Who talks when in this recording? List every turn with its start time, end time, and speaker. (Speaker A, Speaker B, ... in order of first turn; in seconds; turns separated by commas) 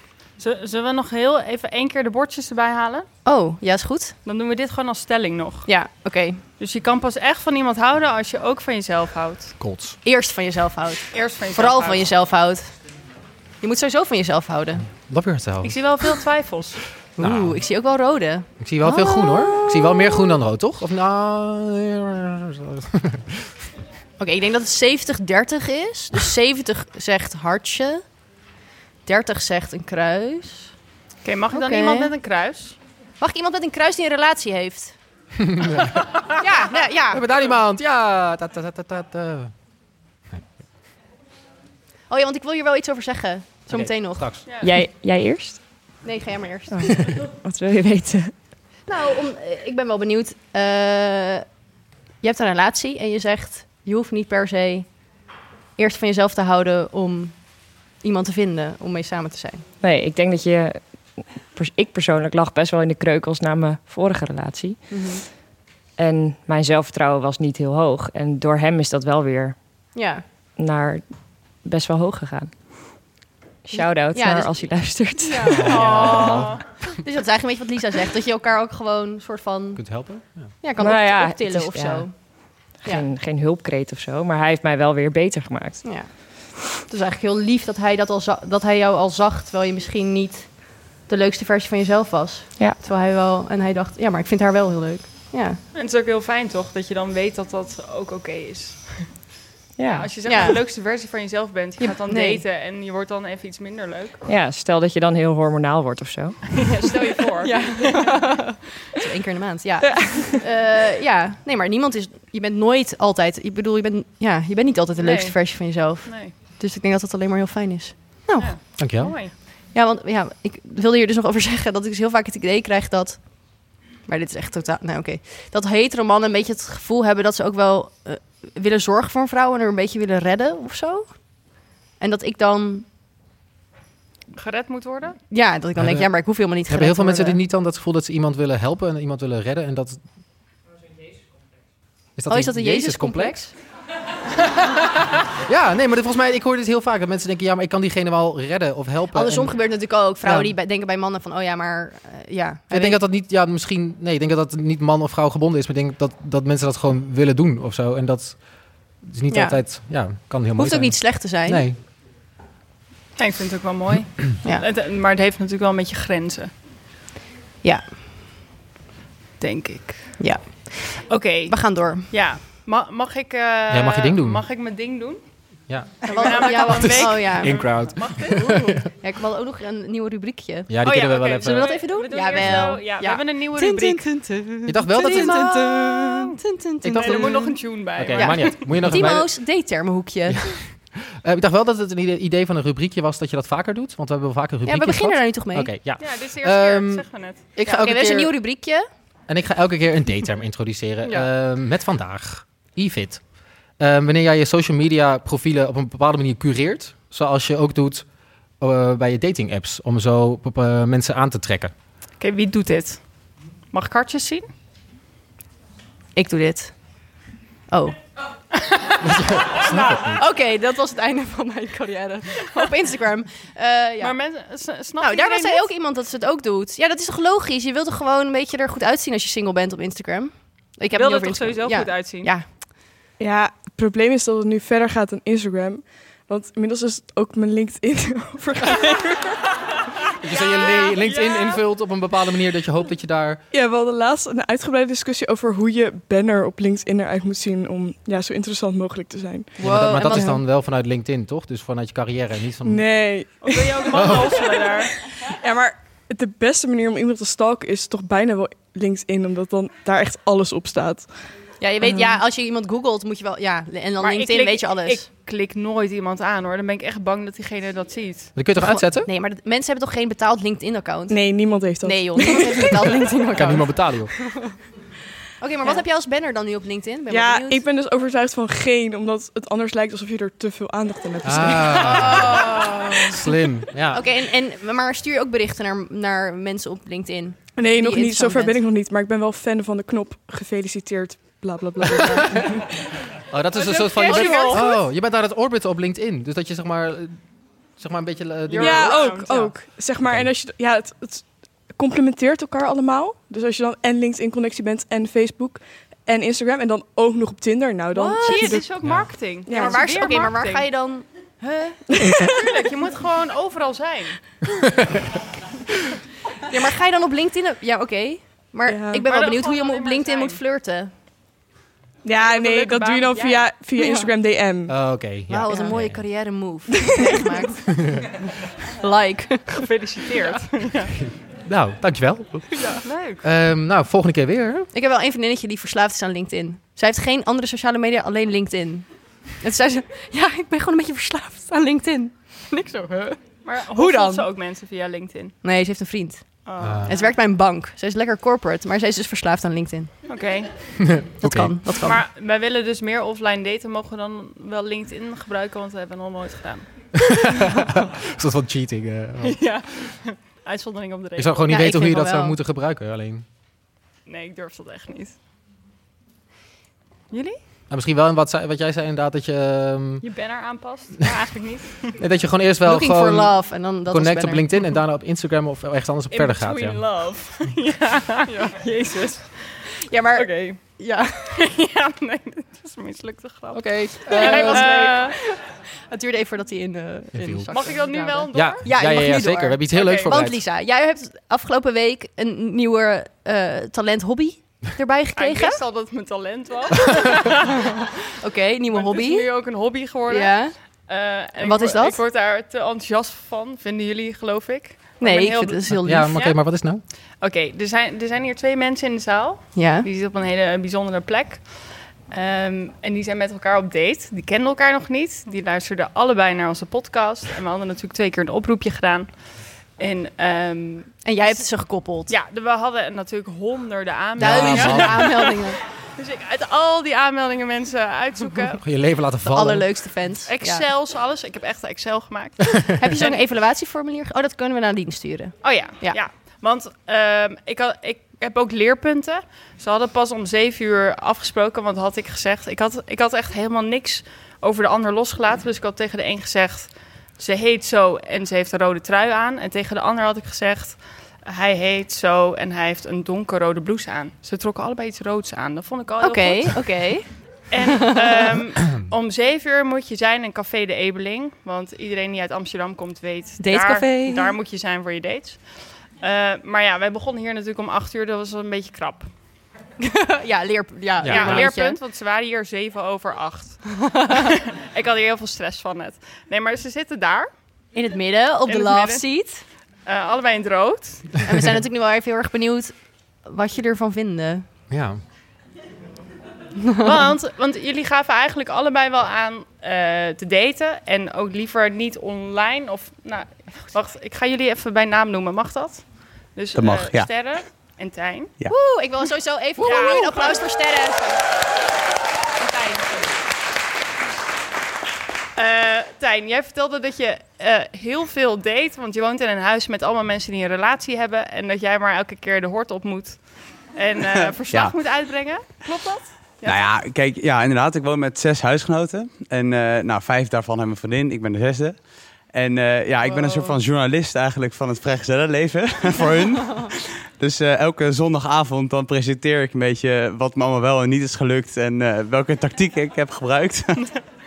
Speaker A: 0.4-3.1, Speaker B: 3.2-4.1, Speaker A: 4.2-5.7, Speaker B: 5.7-6.4, Speaker A: 6.6-9.6, Speaker C: 9.6-9.9, Speaker B: 10.0-12.7, Speaker A: 11.1-12.1, Speaker B: 13.6-14.8, Speaker C: 14.9-15.8, Speaker A: 15.6-16.8, Speaker B: 17.2-20.2, Speaker C: 17.2-17.6, Speaker C: 18.6-23.5, Speaker B: 24.2-28.0, Speaker B: 29.1-30.7, Speaker A: 31.2-32.8, Speaker B: 31.5-32.1, Speaker B: 33.2-34.9, Speaker C: 35.5-36.0, Speaker B: 36.4-37.2, Speaker C: 37.1-39.5, Speaker B: 42.1-44.3, Speaker C: 43.7-44.4, Speaker A: 44.5-44.7, Speaker D: 44.6-45.6, Speaker B: 46.0-47.1, Speaker D: 47.4-48.2, Speaker B: 48.9-51.4, Speaker B: 52.2-55.1, Speaker B: 55.8-59.6, Speaker D: 59.8-60.8, Speaker D: 61.5-64.7, Speaker B: 64.9-65.2, Speaker D: 66.0-69.5, Speaker B: 69.9-70.2, Speaker D: 70.6-72.5, Speaker D: 73.7-75.5, Speaker B: 73.7-74.7, Speaker B: 75.2-80.0, Speaker C: 75.5-76.5, Speaker A: 75.6-76.6, Speaker C: 79.8-80.5, Speaker B: 80.6-83.0, Speaker D: 80.8-82.0, Speaker D: 82.8-85.8, Speaker B: 85.8-95.6, Speaker A: 95.7-99.1, Speaker D: 99.8-100.1, Speaker A: 99.9-104.2, Speaker B: 100.2-100.6, Speaker B: 101.8-102.4, Speaker D: 104.3-106.3, Speaker A: 106.6-108.3, Speaker B: 107.4-132.8, Speaker A: 115.0-116.3, Speaker A: 118.4-119.3, Speaker C: 118.8-119.2, Speaker A: 134.3-135.2, Speaker B: 135.3-137.4, Speaker C: 135.8-140.0, Speaker C: 142.2-143.4, Speaker B: 142.3-143.5, Speaker C: 145.4-150.5, Speaker B: 149.1-153.0, Speaker C: 152.7-158.4, Speaker C: 159.0-161.8, Speaker B: 159.3-159.6, Speaker B: 160.6-161.6, Speaker A: 163.2-166.5, Speaker A: 169.4-170.2, Speaker B: 170.2-172.1, Speaker A: 171.0-175.2, Speaker C: 173.7-174.4, Speaker C: 175.7-178.8, Speaker A: 176.0-178.8, Speaker B: 176.1-190.5, Speaker C: 180.7-181.8, Speaker A: 180.8-184.1, Speaker C: 182.3-182.8, Speaker C: 184.7-186.1, Speaker A: 185.0-185.4, Speaker C: 186.8-189.3, Speaker A: 187.0-188.9, Speaker C: 190.3-198.3, Speaker B: 194.7-195.7, Speaker A: 196.0-197.4, Speaker B: 197.6-198.8, Speaker C: 199.3-203.2, Speaker C: 203.8-208.0, Speaker C: 208.6-211.7, Speaker A: 212.2-213.0, Speaker A: 213.7-214.4, Speaker B: 216.1-217.0, Speaker B: 217.7-217.9, Speaker C: 219.0-220.2, Speaker A: 219.7-220.0, Speaker B: 220.2-224.2, Speaker A: 224.0-225.7, Speaker B: 225.0-232.4, Speaker A: 230.9-232.3, Speaker E: 233.2-239.3, Speaker C: 240.2-243.4, Speaker A: 240.3-241.6, Speaker E: 243.5-249.6, Speaker B: 249.6-250.4, Speaker C: 249.6-252.9, Speaker E: 252.6-254.6, Speaker A: 253.4-254.9, Speaker C: 254.0-254.2, Speaker E: 255.3-261.1, Speaker B: 261.6-265.0, Speaker A: 264.0-268.3, Speaker C: 268.4-269.1, Speaker B: 268.6-274.5, Speaker E: 271.1-272.7, Speaker C: 273.3-274.1, Speaker B: 275.4-277.6, Speaker E: 277.1-282.2, Speaker C: 281.2-282.4, Speaker B: 281.8-283.1, Speaker C: 283.1-284.0, Speaker B: 283.9-288.6, Speaker E: 287.6-292.6, Speaker C: 293.3-297.1, Speaker A: 293.6-294.6, Speaker B: 294.0-294.8, Speaker C: 297.8-299.0, Speaker A: 298.5-299.6, Speaker E: 298.5-308.8, Speaker C: 300.0-300.3, Speaker A: 307.9-310.6, Speaker B: 308.2-308.6, Speaker E: 309.4-309.8, Speaker B: 309.5-311.8, Speaker A: 312.3-314.2, Speaker B: 316.5-320.9, Speaker E: 318.7-319.0, Speaker A: 319.0-320.4, Speaker E: 322.0-324.8, Speaker A: 322.1-323.5, Speaker B: 323.8-324.1, Speaker C: 324.7-326.1, Speaker B: 325.3-327.9, Speaker B: 328.7-329.7, Speaker A: 329.5-330.9, Speaker C: 331.4-332.6, Speaker A: 332.8-333.2, Speaker C: 333.2-334.7, Speaker B: 334.7-344.2, Speaker A: 343.4-345.4, Speaker B: 345.4-349.9, Speaker A: 346.4-347.1, Speaker C: 346.6-346.9, Speaker A: 350.1-350.8, Speaker C: 350.9-351.8, Speaker B: 351.2-352.0, Speaker A: 351.8-356.6, Speaker C: 357.1-359.4, Speaker A: 359.2-361.5, Speaker C: 361.2-363.2, Speaker B: 361.5-362.4, Speaker A: 364.1-365.1, Speaker A: 367.1-367.4, Speaker C: 367.7-370.1, Speaker A: 370.0-371.9, Speaker C: 372.0-376.8, Speaker B: 372.6-374.7, Speaker A: 376.1-378.3, Speaker B: 378.3-381.4, Speaker A: 380.1-380.6, Speaker A: 381.3-385.1, Speaker C: 383.5-384.8, Speaker B: 384.1-395.6, Speaker C: 387.1-387.5, Speaker A: 387.5-388.6, Speaker C: 388.3-390.4, Speaker A: 389.7-390.1, Speaker A: 395.2-397.8, Speaker B: 398.2-399.3, Speaker A: 398.7-406.4, Speaker B: 400.1-400.6, Speaker B: 401.4-402.0, Speaker B: 405.0-406.1, Speaker C: 405.8-406.8, Speaker A: 407.2-419.1, Speaker B: 409.5-409.9, Speaker A: 419.8-421.0, Speaker B: 421.0-422.1, Speaker A: 422.1-425.4, Speaker C: 424.2-425.1, Speaker B: 424.2-425.6, Speaker A: 426.0-428.6, Speaker C: 428.6-429.9, Speaker B: 429.2-430.6, Speaker A: 430.3-433.2, Speaker B: 432.8-436.0, Speaker A: 435.4-456.7, Speaker B: 456.0-457.1, Speaker A: 457.5-469.1, Speaker B: 457.9-458.2, Speaker B: 463.4-464.3, Speaker B: 469.8-471.8, Speaker C: 471.0-471.5, Speaker A: 471.1-477.3, Speaker B: 477.7-479.4, Speaker A: 478.4-479.1, Speaker A: 479.9-481.1, Speaker B: 481.2-484.4, Speaker C: 484.7-485.0, Speaker A: 486.8-498.3, Speaker F: 496.5-497.1, Speaker B: 498.5-501.2, Speaker A: 499.6-500.4, Speaker A: 502.4-503.2, Speaker A: 505.4-516.7, Speaker F: 514.1-514.7, Speaker F: 516.4-533.9, Speaker A: 523.0-523.6